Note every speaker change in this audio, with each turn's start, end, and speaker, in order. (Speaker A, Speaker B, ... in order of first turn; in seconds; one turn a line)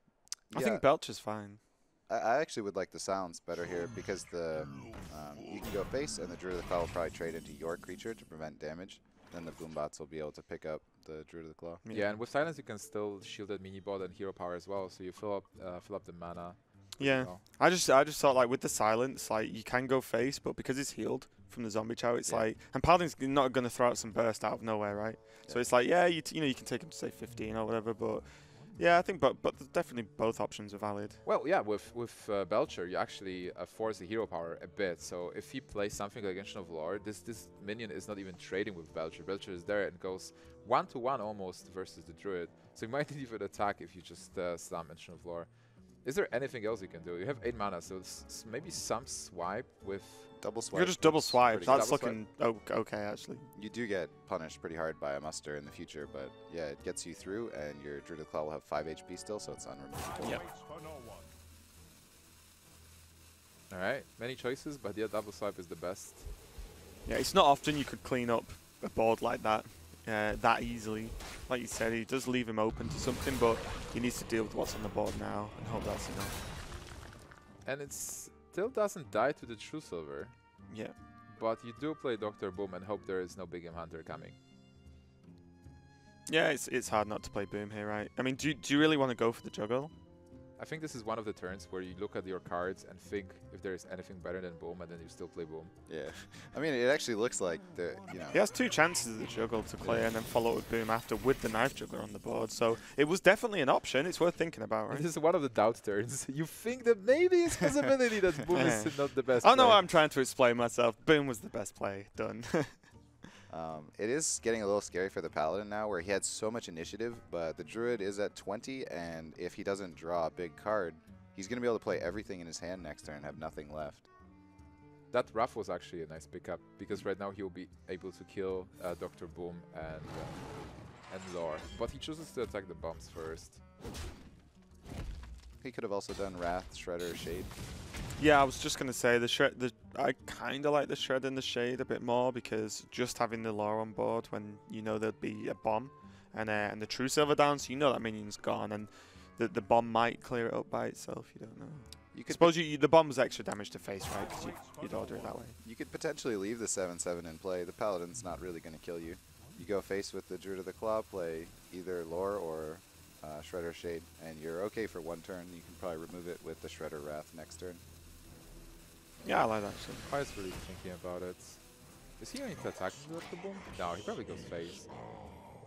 Speaker A: 0.5-0.8
Speaker B: 0.5-1.6
Speaker A: 2.1-11.8
Speaker B: 11.8-12.2
Speaker C: 11.9-17.4
Speaker B: 17.0-31.2
Speaker C: 31.2-45.5
Speaker C: 46.0-50.4
Speaker A: 50.4-52.0
Speaker B: 50.7-53.5
Speaker C: 51.6-52.2
Speaker A: 53.5-60.4
Speaker B: 60.2-60.5
Speaker C: 63.7-66.3
Speaker B: 67.0-76.4
Speaker C: 77.7-80.6
Speaker B: 80.7-80.9
Speaker C: 81.3-84.4
Speaker B: 86.3-89.9
Speaker C: 90.6-95.7
Speaker A: 95.9-98.4
Speaker B: 98.3-105.0
Speaker A: 99.8-100.1
Speaker C: 104.9-109.8
Speaker B: 108.5-112.9
Speaker A: 113.5-124.1
Speaker C: 125.1-133.6
Speaker A: 135.6-137.5
Speaker B: 138.2-155.6
Speaker A: 152.1-152.6
Speaker A: 155.6-167.8
Speaker B: 169.2-170.1
Speaker C: 170.0-175.0